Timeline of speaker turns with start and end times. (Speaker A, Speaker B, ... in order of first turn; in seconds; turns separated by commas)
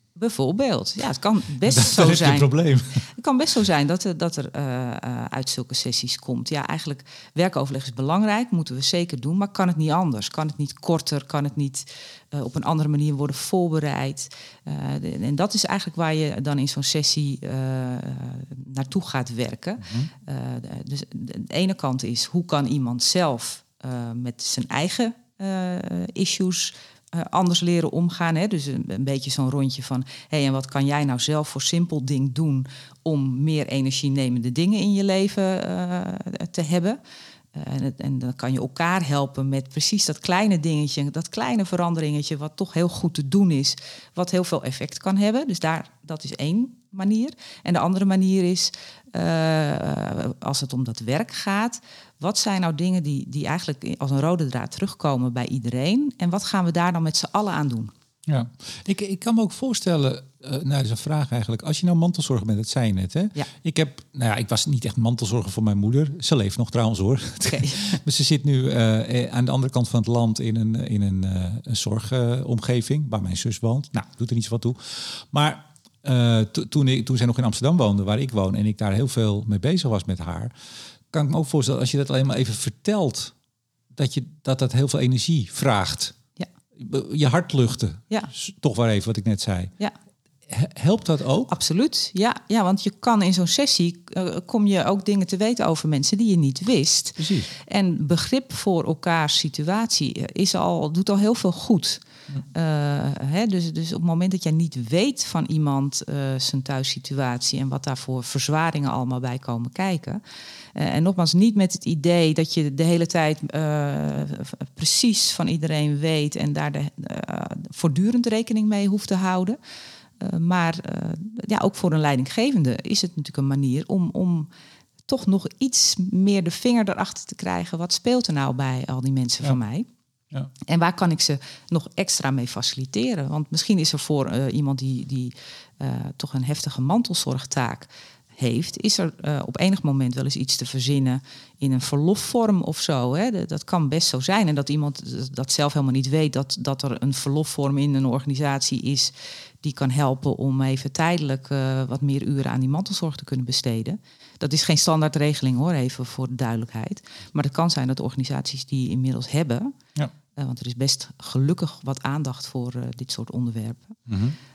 Speaker A: 0.2-2.5, Speaker B: 1.6-3.1, Speaker A: 3.1-37.0, Speaker B: 19.8-20.1, Speaker A: 37.5-57.9, Speaker B: 58.3-80.5, Speaker A: 67.5-68.0, Speaker B: 81.1-83.3, Speaker B: 83.9-86.2, Speaker B: 86.8-89.7, Speaker B: 90.5-91.5, Speaker A: 91.5-110.2, Speaker B: 97.2-97.5, Speaker A: 110.8-119.6, Speaker A: 120.2-124.5, Speaker A: 125.1-129.9, Speaker A: 130.6-159.8, Speaker A: 160.4-164.0, Speaker B: 164.1-164.4